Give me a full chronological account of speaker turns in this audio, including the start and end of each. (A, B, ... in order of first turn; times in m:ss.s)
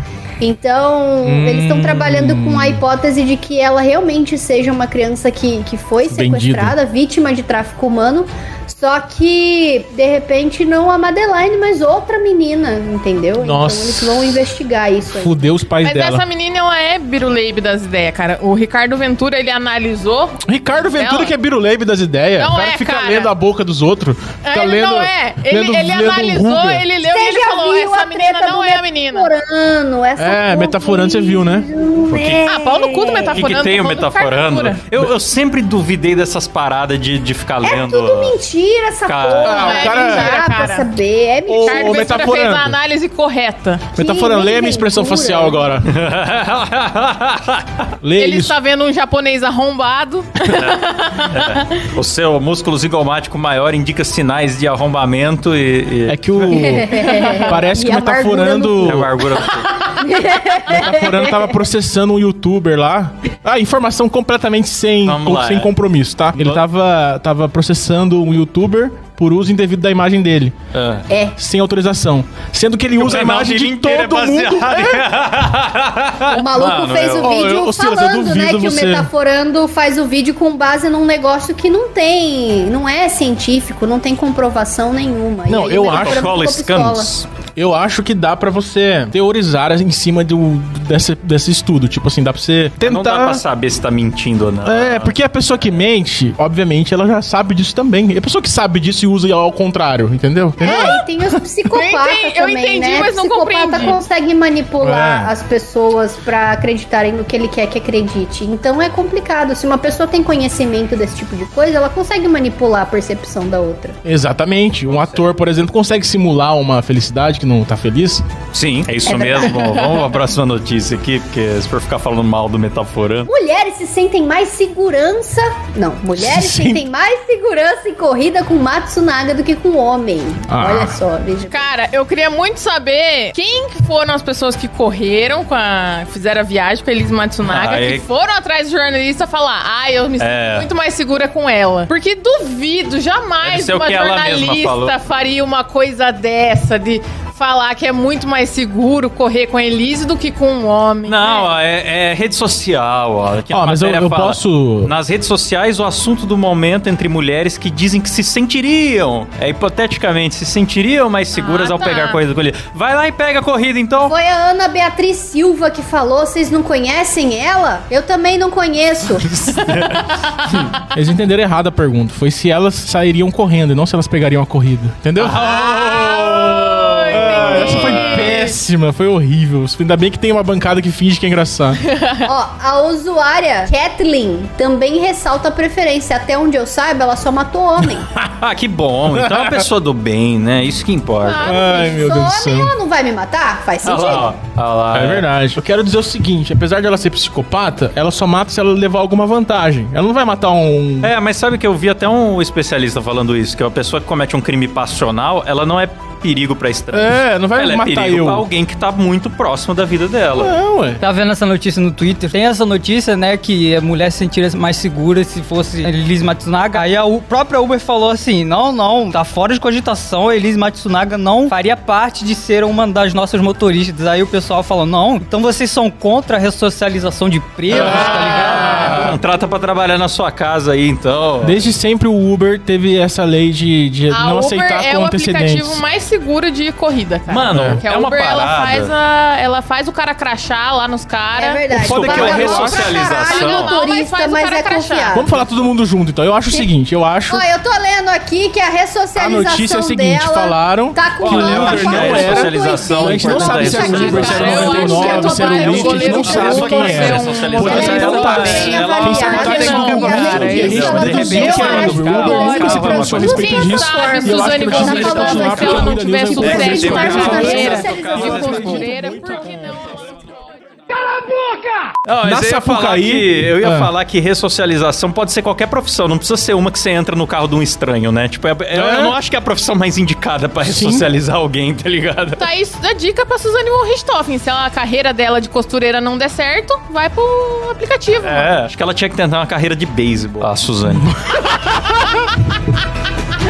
0:00.4-0:15.4 A
0:01.2-0:02.8 B
0:06.1-0:06.8 B
0:13.4-0:14.4 B
0:15.1-0:16.2 B
0:15.8-0:21.3 C
0:20.4-0:26.9 B
0:22.4-0:23.3 C
0:24.4-0:29.3 C
0:27.0-0:33.4 A
0:30.2-0:31.7 B
0:32.0-0:32.6 D
0:32.4-0:34.8 C
0:33.3-0:38.4 D
0:37.6-0:42.2 A
0:39.1-0:39.7 D
0:39.4-0:40.4 B
0:39.5-0:40.9 C
0:41.5-0:42.8 B
0:41.6-0:43.9 C
0:44.0-0:45.8 A
0:44.0-0:45.9 B
0:45.9-0:47.9 D
0:48.0-0:48.6 B
0:48.2-0:51.8 C
0:50.4-0:56.7 D
0:56.1-0:59.1 B
0:56.5-0:59.1 A
0:57.0-0:57.6 C
0:58.8-0:59.9 D
0:59.9-1:01.5 A
1:00.6-1:10.6 B
1:05.0-1:05.7 D
1:06.3-1:06.6 D
1:10.7-1:11.1 D
1:11.1-1:11.4 A
1:11.4-1:15.1 B
1:12.9-1:17.4 D
1:16.3-1:27.1 A
1:17.2-1:19.1 B
1:25.5-1:26.3 B
1:25.8-1:27.3 D
1:27.6-1:33.4 B
1:32.8-1:35.1 D
1:34.6-1:40.9 B
1:40.6-1:54.0 A
1:40.6-1:41.0 C
1:41.7-1:44.0 C
1:44.8-1:45.3 B
1:54.0-1:58.2 B
1:54.9-1:55.2 D
1:58.5-2:03.3 D
1:59.1-1:59.6 A
2:03.3-2:11.7 A
2:06.2-2:06.9 B
2:10.5-2:11.0 B
2:11.5-2:31.5 C
2:17.4-2:18.0 D
2:20.2-2:20.7 D
2:23.4-2:25.0 D
2:31.1-2:44.1 D
2:33.5-2:34.9 B
2:41.3-2:42.2 C
2:44.1-2:49.4 A
2:49.2-2:50.8 D
2:50.9-2:55.4 B
2:55.2-2:58.3 D
2:55.3-2:58.6 C
2:57.1-3:01.8 B
3:01.8-3:02.3 C
3:02.2-3:08.1 A
3:08.2-3:11.5 D
3:09.1-3:09.7 B
3:11.2-3:12.1 C
3:11.4-3:12.7 B
3:11.6-3:14.3 A
3:13.8-3:15.3 D
3:14.9-3:21.1 B
3:21.0-3:30.6 D
3:26.9-3:28.4 B
3:30.3-3:31.0 B
3:31.0-3:49.1 E
3:47.7-3:49.2 B
3:47.7-3:51.6 D
3:51.4-3:55.8 B
3:54.1-4:01.6 C
3:57.3-3:58.9 D
3:57.5-3:57.8 B
4:01.4-4:05.3 A
4:01.7-4:03.8 D
4:01.8-4:02.8 B
4:02.7-4:05.3 C
4:05.1-4:07.4 B
4:07.3-4:29.0 A
4:09.2-4:29.4 B
4:11.2-4:14.8 D
4:13.7-4:30.2 C
4:15.8-4:23.5 D
4:26.4-4:28.8 D
4:32.0-4:42.4 D
4:32.2-4:33.9 B
4:38.7-4:39.2 B
4:40.6-4:41.1 B
4:42.4-4:48.5 C
4:48.2-4:51.1 D
4:50.9-4:51.4 B